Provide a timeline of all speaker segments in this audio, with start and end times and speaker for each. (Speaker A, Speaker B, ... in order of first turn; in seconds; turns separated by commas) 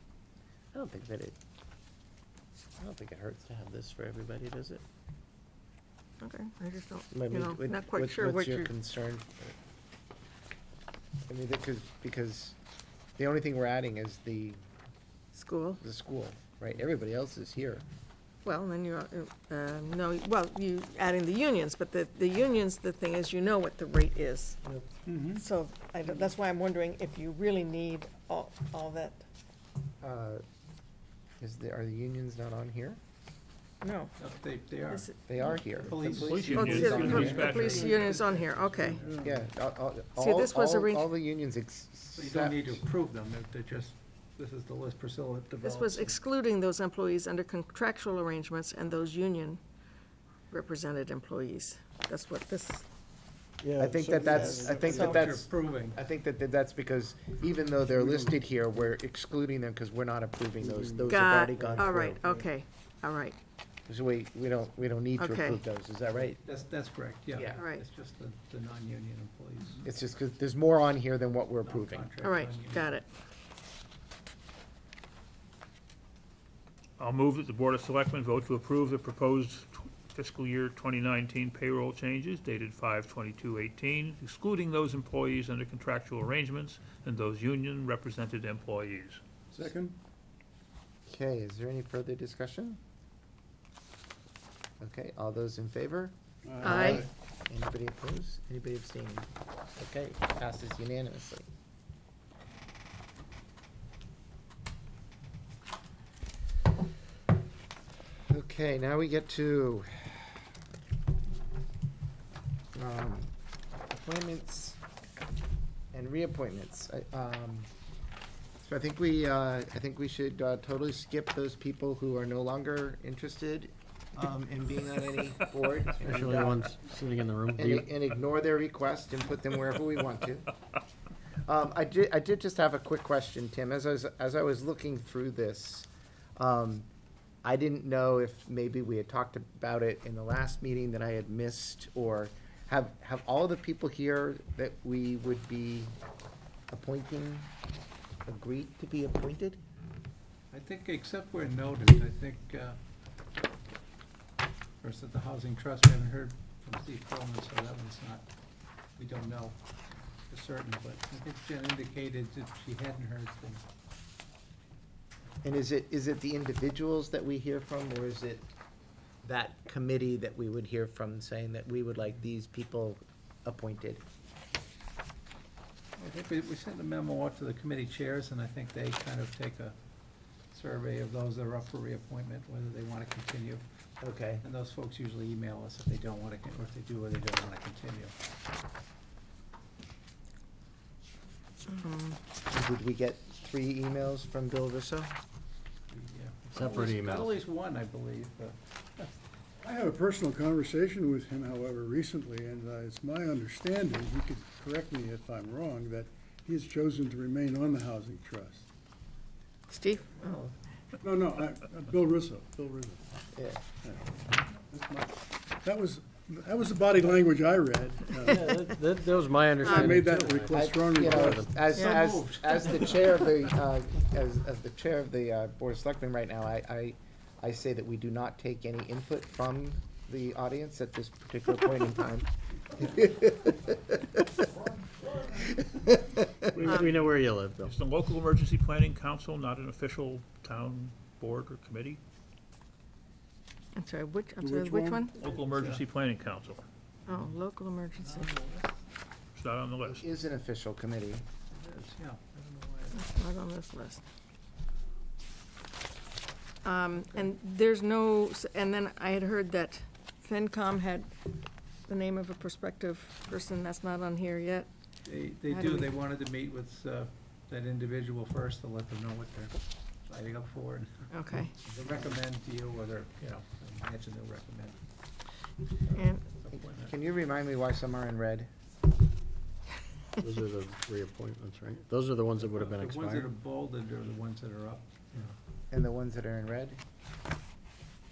Speaker A: 0.7-1.4, Speaker A: 2.8-4.8, Speaker B: 6.2-8.7, Speaker A: 7.1-9.5, Speaker A: 11.3-12.6, Speaker A: 13.2-14.6, Speaker B: 15.3-15.8, Speaker A: 15.8-17.8, Speaker B: 18.4-24.6, Speaker C: 25.1-25.4, Speaker B: 25.4-29.2, Speaker A: 30.0-30.4, Speaker A: 31.4-33.0, Speaker B: 33.8-34.1, Speaker D: 34.2-35.1, Speaker B: 34.9-39.0, Speaker A: 35.3-36.4, Speaker D: 35.6-39.5, Speaker E: 36.0-37.8, Speaker C: 37.1-37.9, Speaker C: 39.0-39.3, Speaker A: 39.2-42.8, Speaker B: 40.2-41.1, Speaker D: 42.1-46.2, Speaker B: 45.6-49.6, Speaker B: 50.5-52.9, Speaker F: 53.6-54.9, Speaker A: 53.8-62.4, Speaker B: 54.2-55.2, Speaker D: 54.7-56.0, Speaker C: 57.9-58.4, Speaker C: 60.6-61.7, Speaker B: 61.1-63.4, Speaker A: 63.9-66.4, Speaker B: 65.2-65.6, Speaker D: 66.4-69.8, Speaker B: 67.5-67.8, Speaker A: 69.8-72.1, Speaker D: 71.6-73.0, Speaker B: 72.2-73.1, Speaker E: 77.0-89.2, Speaker C: 89.5-90.0, Speaker A: 91.1-92.8, Speaker A: 94.8-101.5, Speaker C: 96.5-97.1, Speaker B: 96.6-97.1, Speaker A: 108.3-110.3, Speaker A: 112.7-113.3, Speaker A: 113.9-114.8, Speaker A: 115.9-117.7, Speaker A: 118.6-126.8, Speaker F: 126.0-127.9, Speaker A: 127.5-130.5, Speaker A: 131.5-136.9, Speaker A: 137.4-145.9, Speaker A: 146.7-147.5, Speaker A: 148.3-149.6, Speaker D: 150.5-152.8, Speaker D: 154.8-158.2, Speaker D: 159.0-159.6, Speaker D: 160.3-163.6, Speaker A: 165.4-168.5, Speaker A: 169.2-174.0, Speaker D: 176.0-179.8, Speaker D: 180.5-183.6, Speaker A: 184.0-184.4, Speaker D: 184.4-188.1, Speaker B: 191.7-192.2, Speaker A: 192.5-195.1, Speaker D: 195.9-199.1, Speaker F: 196.5-197.3, Speaker C: 199.6-208.7, Speaker B: 209.7-210.4, Speaker D: 210.3-210.5, Speaker C: 211.0-213.0, Speaker A: 213.3-213.6, Speaker C: 213.8-218.7, Speaker F: 218.2-221.5, Speaker C: 219.6-221.5, Speaker A: 220.5-234.3, Speaker D: 221.7-223.0, Speaker B: 221.8-222.1, Speaker A: 235.3-236.7, Speaker F: 236.6-237.8, Speaker E: 237.6-242.0, Speaker B: 243.8-245.2, Speaker C: 244.4-245.4, Speaker E: 245.2-246.7, Speaker D: 245.2-245.8, Speaker B: 247.1-248.3, Speaker D: 248.0-248.7, Speaker E: 249.4-250.1, Speaker A: 249.8-251.2, Speaker D: 251.5-253.1, Speaker B: 252.9-254.0, Speaker B: 256.6-261.4, Speaker B: 261.9-264.7, Speaker D: 265.1-274.8, Speaker B: 265.5-265.9, Speaker B: 271.1-271.6, Speaker D: 275.9-276.9, Speaker B: 275.9-276.2, Speaker A: 276.5-278.5, Speaker F: 280.2-283.3, Speaker D: 282.4-285.3, Speaker A: 285.7-286.8